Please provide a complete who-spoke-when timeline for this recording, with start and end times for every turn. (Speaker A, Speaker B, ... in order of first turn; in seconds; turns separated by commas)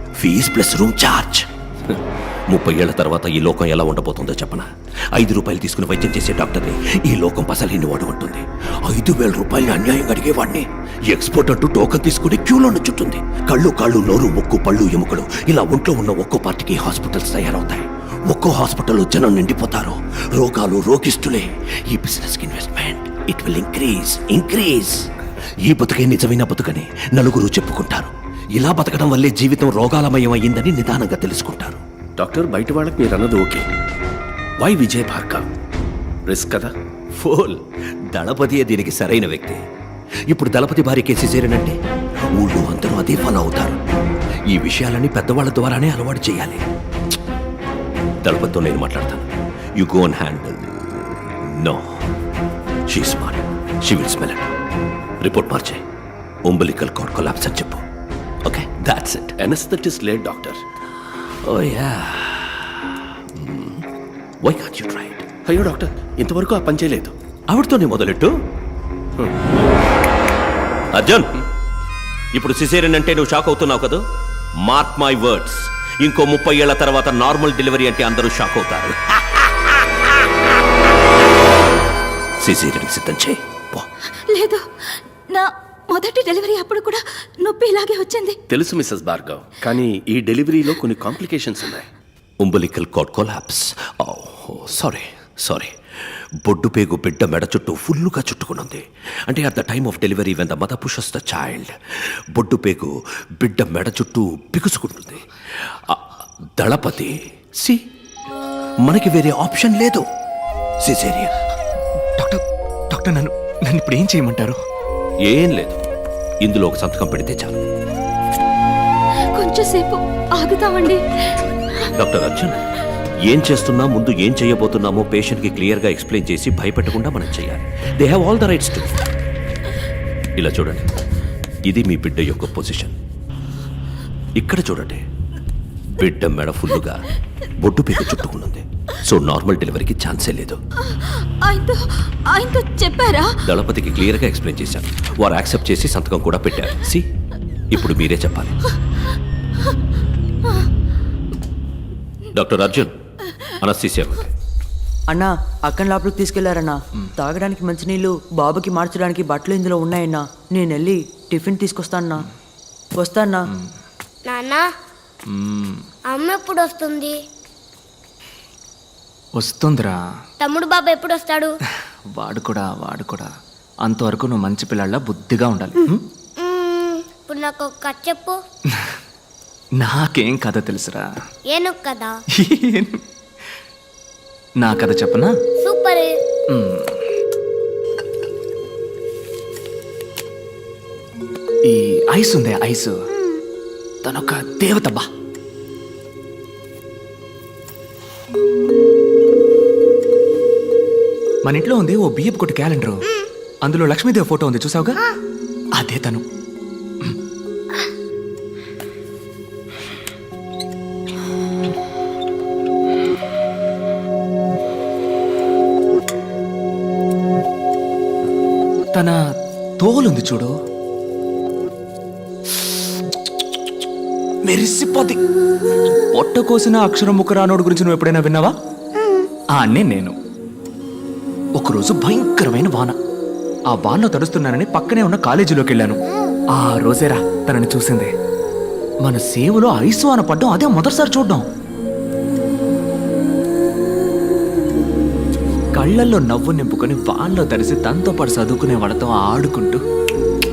Speaker A: 0.2-25.0, Speaker A: 25.6-31.8, Speaker B: 32.2-33.7, Speaker B: 34.6-35.4, Speaker B: 36.3-36.7, Speaker A: 37.2-37.6, Speaker A: 38.1-39.6, Speaker A: 40.3-41.8, Speaker A: 42.4-43.8, Speaker A: 44.5-46.6, Speaker A: 48.2-51.8, Speaker A: 52.9-54.5, Speaker A: 55.2-55.8, Speaker A: 56.5-57.8, Speaker A: 58.5-59.4, Speaker B: 59.4-60.6, Speaker A: 61.1-63.8, Speaker A: 64.4-65.2, Speaker B: 65.5-67.1, Speaker A: 67.5-68.3, Speaker A: 71.0-71.4, Speaker A: 72.3-74.0, Speaker A: 74.6-79.8, Speaker A: 82.4-83.9, Speaker C: 84.3-84.6, Speaker C: 85.3-88.4, Speaker B: 88.5-91.9, Speaker A: 92.4-95.7, Speaker A: 96.4-101.7, Speaker A: 102.3-106.0, Speaker A: 106.6-107.8, Speaker A: 108.8-110.0, Speaker A: 110.8-111.3, Speaker D: 112.2-114.6, Speaker A: 115.2-115.8, Speaker A: 116.4-117.6, Speaker C: 119.3-121.9, Speaker A: 122.0-122.6, Speaker A: 123.3-129.0, Speaker A: 130.4-130.9, Speaker A: 131.7-133.0, Speaker A: 134.4-135.0, Speaker A: 136.0-137.0, Speaker A: 137.6-140.6, Speaker C: 140.9-143.4, Speaker A: 143.4-147.1, Speaker A: 147.7-148.6, Speaker A: 152.3-152.9, Speaker A: 153.6-154.3, Speaker E: 155.1-162.2, Speaker E: 163.0-163.4, Speaker F: 164.3-164.7, Speaker D: 165.3-165.8, Speaker F: 166.1-167.2, Speaker D: 169.4-170.0, Speaker F: 170.4-171.6, Speaker D: 172.2-173.3, Speaker D: 173.8-176.1, Speaker F: 176.4-178.4, Speaker D: 179.8-181.1, Speaker F: 181.5-182.2, Speaker D: 182.4-183.0, Speaker D: 184.6-185.3, Speaker F: 185.6-186.1, Speaker D: 186.5-187.0, Speaker D: 191.7-192.9, Speaker D: 194.0-195.1, Speaker D: 201.4-203.0, Speaker D: 203.6-205.0, Speaker D: 205.8-206.2, Speaker D: 218.9-219.2, Speaker D: 219.8-220.5, Speaker D: 222.6-222.9, Speaker D: 224.4-225.2, Speaker D: 226.1-228.5, Speaker D: 229.6-230.2, Speaker D: 231.6-233.0, Speaker D: 233.7-236.0, Speaker D: 236.6-238.1, Speaker D: 239.0-241.4, Speaker D: 245.8-249.8